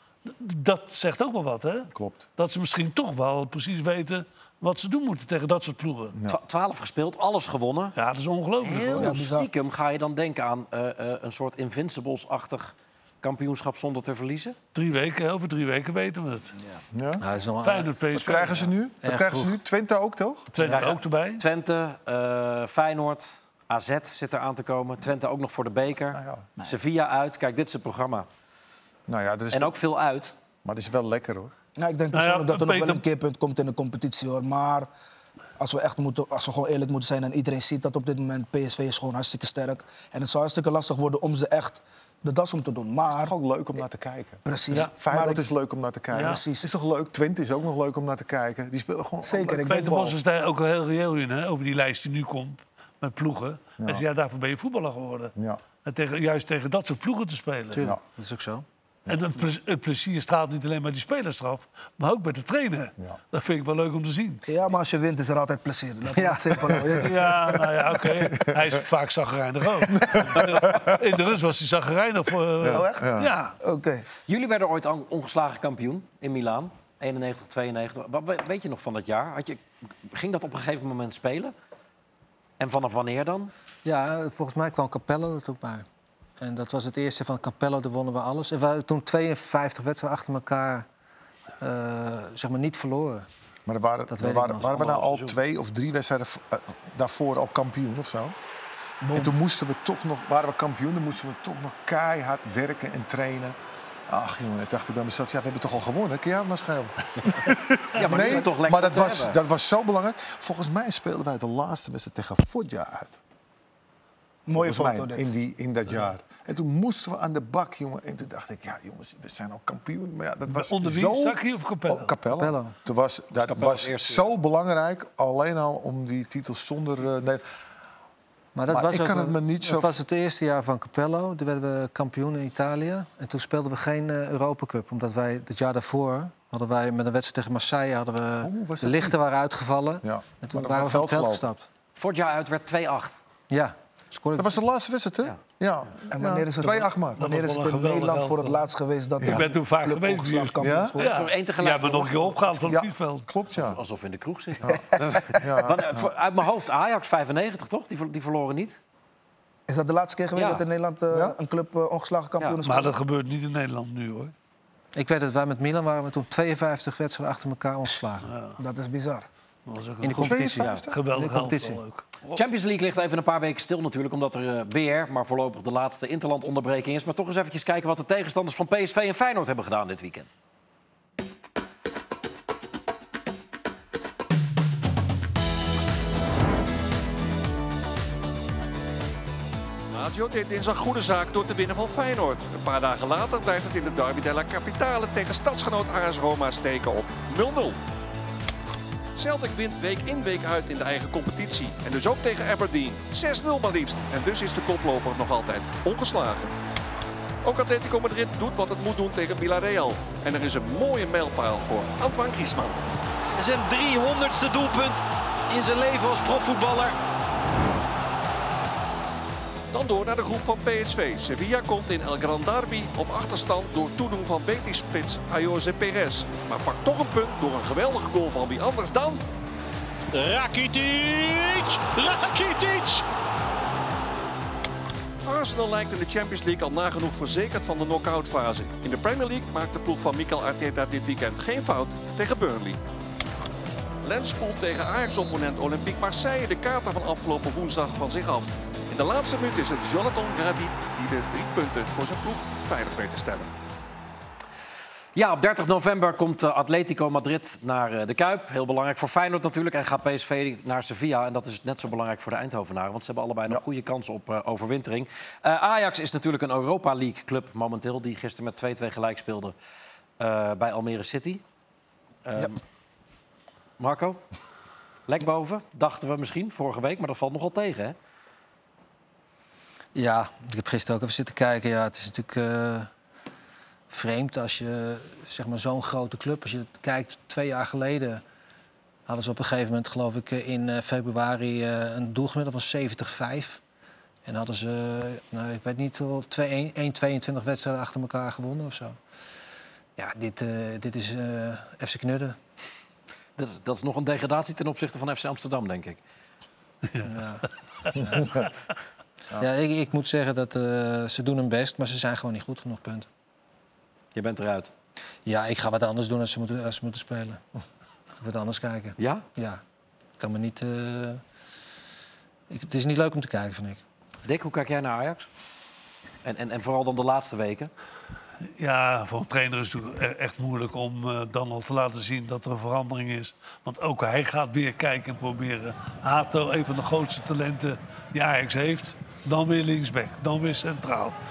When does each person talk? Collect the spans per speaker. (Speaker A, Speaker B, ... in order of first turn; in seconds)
Speaker A: 0.3-6.2, 8.0-9.2, 14.7-16.6, 17.6-18.7, 20.5-21.4, 32.1-33.0, 46.1-46.4, 49.6-57.9, 59.1-64.4, 67.0-73.6, 120.5-122.2, 147.2-148.7, 149.2-153.3, 162.6-164.3, 168.2-168.6, 169.7-172.4, 328.5-341.2
Speaker B: 1.9-2.2, 16.9-17.2, 18.1-20.5, 26.1-26.5, 29.1-29.8, 30.6-31.5, 43.1-50.0, 55.4-55.6, 67.0-68.8, 69.9-71.0, 72.6-73.3, 93.7-98.4, 99.1-103.6, 104.1-113.2, 114.5-127.4, 128.7-130.0, 138.4-139.2, 140.0-141.5, 144.4-147.2, 149.2-149.5, 150.6-151.0, 152.7-153.8, 155.3-156.1, 161.1-161.4, 170.1-171.0
Speaker C: 6.3-8.0, 8.6-14.6, 20.6-28.3, 29.5-30.3, 74.3-81.5, 82.6-83.5, 94.7-95.4, 107.9-109.4, 123.4-124.3, 142.0-143.2, 151.0-152.7, 153.5-158.8, 172.3-180.3, 255.2-269.6, 270.2-271.4, 272.3-272.6, 273.8-274.2, 275.1-278.0, 303.4-306.0, 314.1-314.7, 319.0-319.3, 324.2-325.3, 326.2-327.7
Speaker D: 8.9-9.5, 31.8-34.9, 35.6-43.3, 44.5-45.5, 46.2-46.7, 49.2-50.1, 64.5-67.6, 72.7-74.0, 99.0-99.3, 108.1-108.4, 114.5-115.2, 146.1-151.1, 154.7-155.4, 159.7-162.9, 168.6-169.3
Speaker E: 17.2-17.9, 19.0-19.5, 57.7-58.6, 66.1-66.8, 83.8-85.9, 86.4-90.9, 91.6-93.3, 94.1-94.8, 122.3-122.7, 128.6-141.7, 143.5-144.6, 164.9-168.3, 170.0-171.8, 279.9-282.9, 283.9-288.2, 289.1-293.6, 294.2-299.0, 300.0-302.4, 307.0-308.4, 309.4-313.1, 315.3-317.4, 318.2-319.6, 320.2-321.2, 322.5-323.8
Speaker F: 189.9-197.8, 199.2-206.5, 207.4-212.8, 219.7-229.2, 232.7-232.9, 235.2-242.8, 244.0-253.5
Speaker G: 213.4-216.9, 230.1-233.0